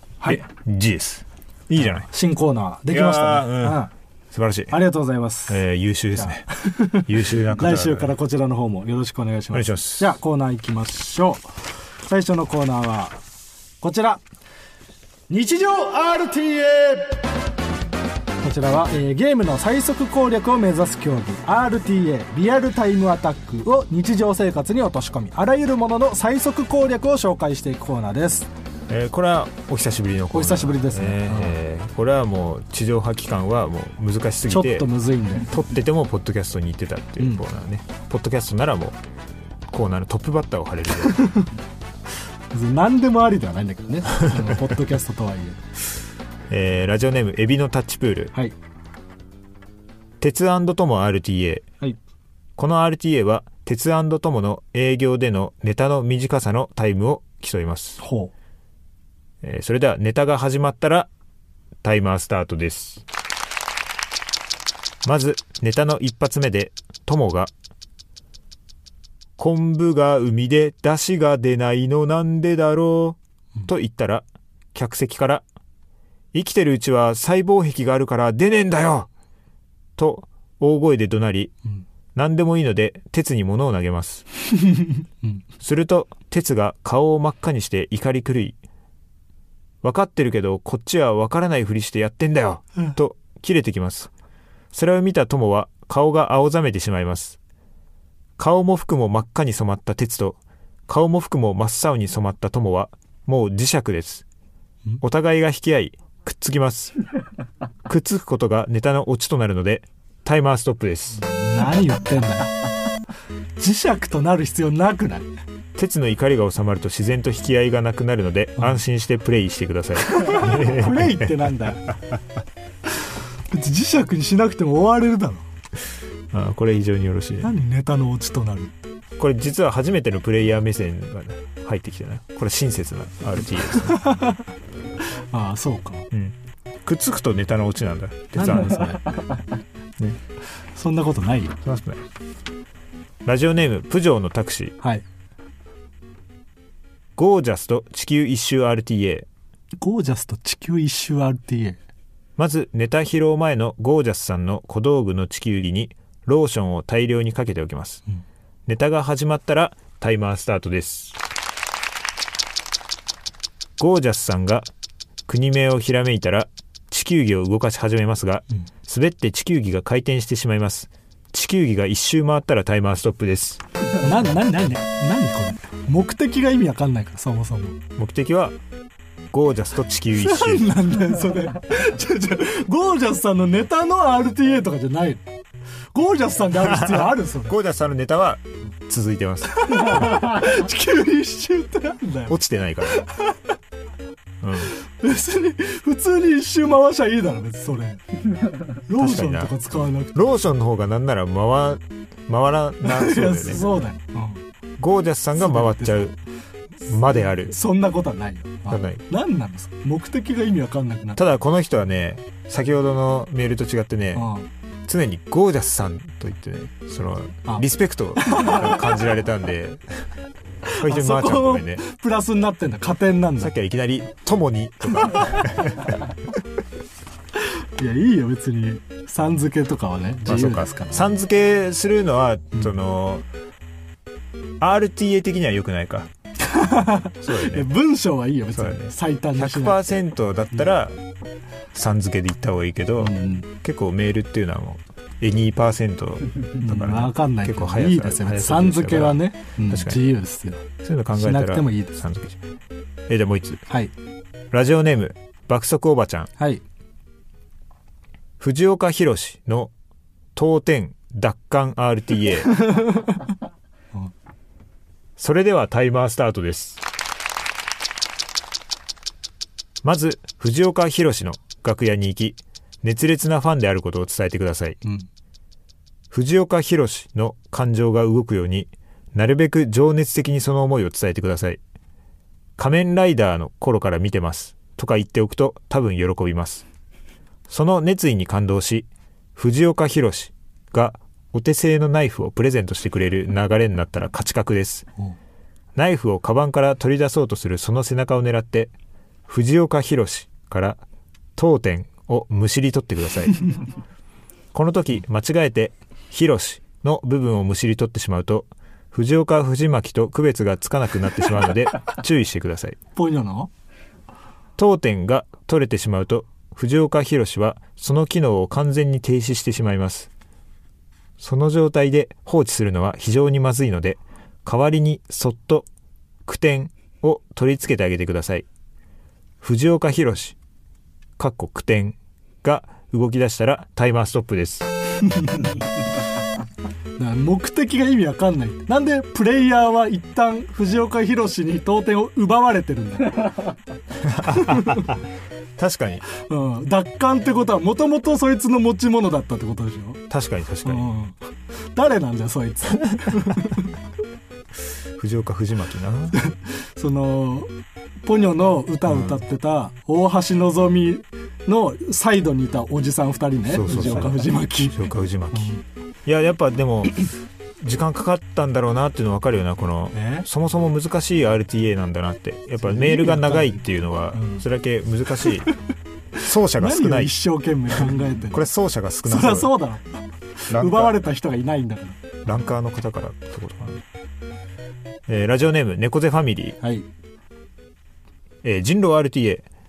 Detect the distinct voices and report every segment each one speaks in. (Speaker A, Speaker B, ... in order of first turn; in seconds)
Speaker A: 0.2-0.5, 1.8-3.9, 4.7-5.6, 6.2-11.4, 12.1-13.2, 13.8-14.2, 15.3-17.2, 18.4-28.5, 30.3-31.6, 34.5-35.5, 41.1-41.5, 42.5-45.6, 58.0-58.3, 111.2-112.5, 113.6-115.3, 120.1-121.9, 123.5-125.4, 127.4-128.7, 133.8-134.4, 135.3-136.1, 138.3-139.2, 140.8-141.6, 149.8-151.8, 174.0-177.8, 180.2-185.2, 185.9-187.6, 189.6-192.4, 192.9-193.4, 194.8-198.0, 198.8-200.2, 202.8-204.4, 205.4-206.0, 207.5-211.2, 214.1-214.5, 218.2-218.8, 220.7-223.5, 227.8-231.2, 236.4-239.8, 243.0-243.5, 246.6-252.0, 256.4-256.6, 262.6-263.0, 312.9-313.5, 335.1-335.5, 337.0-343.5, 344.3-344.9, 346.2-350.0, 350.6-351.2, 351.7-353.7, 356.1-357.5, 358.0-365.6, 369.9-370.2, 372.6-373.6, 374.1-374.4, 376.6-378.4, 379.1-382.2, 386.6-386.9
Speaker B: 0.2-2.1, 2.9-4.7, 5.5-8.1, 9.5-10.1, 28.9-34.9, 35.4-39.0, 39.7-41.2, 46.5-48.3, 50.2-51.6, 52.6-58.0, 59.4-61.1, 61.8-63.0, 65.0-67.5, 69.4-75.4, 76.3-79.1, 80.0-81.5, 82.1-84.2, 85.6-88.6, 89.8-94.1, 94.7-97.4, 98.4-104.2, 105.0-106.9, 107.8-111.2, 115.8-122.2, 126.3-127.5, 129.2-134.0, 136.1-139.2, 141.6-142.0, 143.2-144.8, 147.2-149.3, 152.4-158.0, 158.7-161.2, 163.8-164.7, 165.3-173.6, 178.0-178.6, 179.3-180.7, 186.5-190.3, 192.3-193.0, 194.4-194.7, 198.9-199.5, 200.1-203.7, 204.8-206.2, 206.8-207.5, 208.7-209.0, 211.2-214.3, 214.8-220.0, 220.8-221.8, 223.4-226.0, 230.2-233.2, 234.6-236.1, 237.2-237.7, 238.5-241.0, 241.7-250.0, 250.8-252.4, 253.1-253.6, 254.5-256.3, 258.4-259.7, 260.3-262.6, 265.2-266.8, 269.8-274.8, 276.1-281.6, 282.6-286.6, 287.5-294.9, 295.7-298.7, 299.3-300.8, 301.4-303.5, 304.5-312.8, 314.6-320.1, 321.2-325.7, 326.2-328.4, 329.4-330.4, 331.2-334.7, 344.0-345.0, 345.6-346.1, 350.1-350.9, 355.0-356.2, 358.9-359.2, 363.5-375.5, 376.2-377.1, 377.8-379.5, 380.5-381.0, 382.2-383.8, 385.1-386.6, 388.4-389.4